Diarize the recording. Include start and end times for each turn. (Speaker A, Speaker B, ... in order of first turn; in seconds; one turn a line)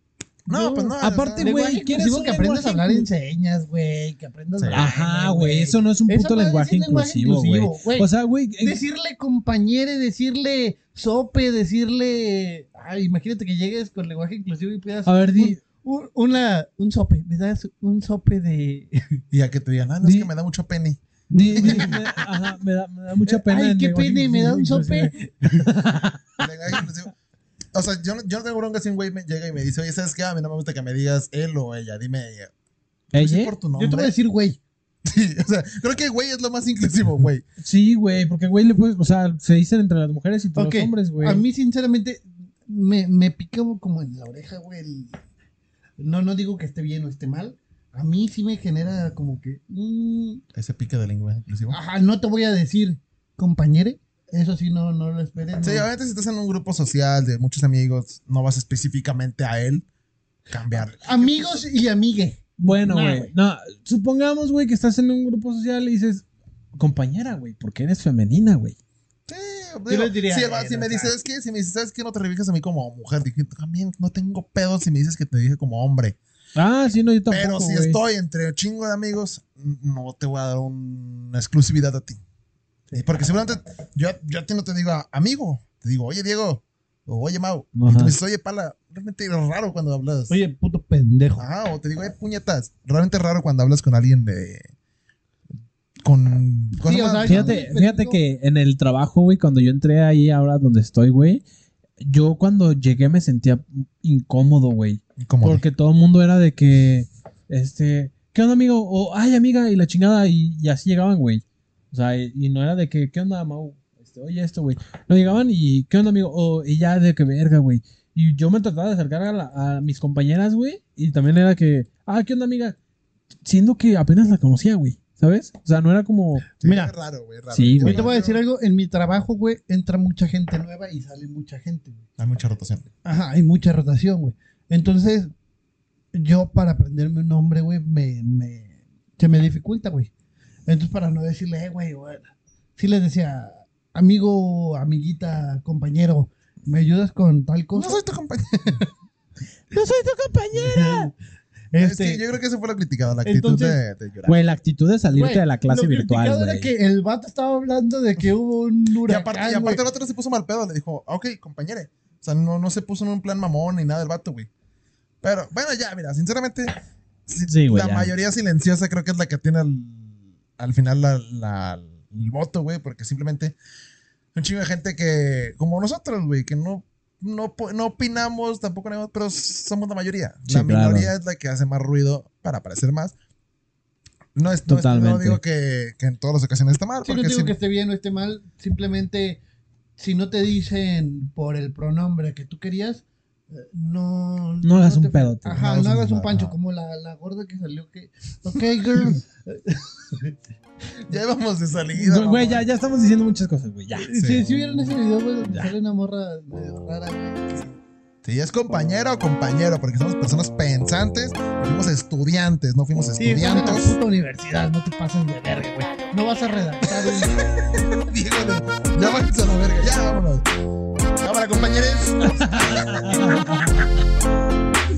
Speaker A: 0.4-1.5
Speaker B: 0.5-8.1
Speaker C: 1.0-3.1
Speaker A: 4.5-4.9
Speaker C: 4.7-8.8
Speaker B: 8.6-19.2
Speaker C: 15.1-15.6
Speaker A: 19.3-21.0
Speaker C: 20.0-20.3
Speaker C: 21.3-26.2
Speaker B: 21.3-22.0
Speaker A: 21.5-22.2
Speaker B: 23.3-25.7
Speaker A: 26.4-27.1
Speaker A: 27.7-32.5
Speaker C: 33.1-33.5
Speaker A: 33.1-34.1
Speaker B: 33.7-34.6
Speaker A: 35.0-37.4
Speaker C: 37.6-41.4
Speaker B: 40.5-45.2
Speaker B: 46.0-50.4
Speaker A: 50.5-51.8
Speaker B: 51.7-55.9
Speaker A: 55.6-59.8
Speaker A: 60.5-61.6
Speaker B: 61.0-63.3
Speaker C: 62.6-66.2
Speaker C: 66.8-68.8
Speaker A: 69.3-76.2
Speaker B: 69.9-71.1
Speaker C: 76.5-78.0
Speaker A: 77.3-82.2
Speaker A: 82.9-90.4
Speaker C: 87.7-88.2
Speaker B: 90.3-91.4
Speaker A: 91.4-94.7
Speaker A: 96.0-97.6
Speaker B: 96.8-98.2
Speaker C: 97.2-101.4
Speaker C: 102.0-122.8
Speaker A: 105.2-105.6
Speaker C: 123.4-126.5
Speaker B: 126.6-126.9
Speaker A: 126.6-128.4
Speaker C: 127.5-128.1
Speaker B: 127.8-132.0
Speaker A: 132.2-132.8
Speaker B: 133.0-135.3
Speaker B: 136.1-140.1
Speaker B: 140.7-148.0
Speaker A: 147.7-148.9
Speaker C: 149.7-151.1
Speaker B: 150.6-151.1
Speaker B: 151.7-152.2
Speaker A: 151.8-154.4
Speaker B: 153.2-153.8
Speaker C: 154.2-156.7
Speaker B: 155.1-159.8
Speaker A: 159.1-164.5
Speaker A: 165.2-166.7
Speaker A: 167.3-173.6
Speaker C: 167.5-168.1
Speaker A: 174.3-183.1
Speaker C: 180.5-181.1
Speaker A: 184.3-187.5
Speaker C: 184.7-185.4
Speaker B: 187.0-189.4
Speaker B: 190.0-200.4
Speaker C: 194.6-195.6
Speaker A: 195.5-196.6
Speaker A: 201.1-202.6
Speaker C: 201.9-204.1
Speaker B: 203.9-207.8
Speaker A: 204.1-204.6
Speaker C: 205.4-205.7
Speaker A: 208.2-214.0
Speaker B: 213.2-217.4
Speaker A: 216.9-220.4
Speaker A: 221.2-223.4
Speaker C: 222.4-223.9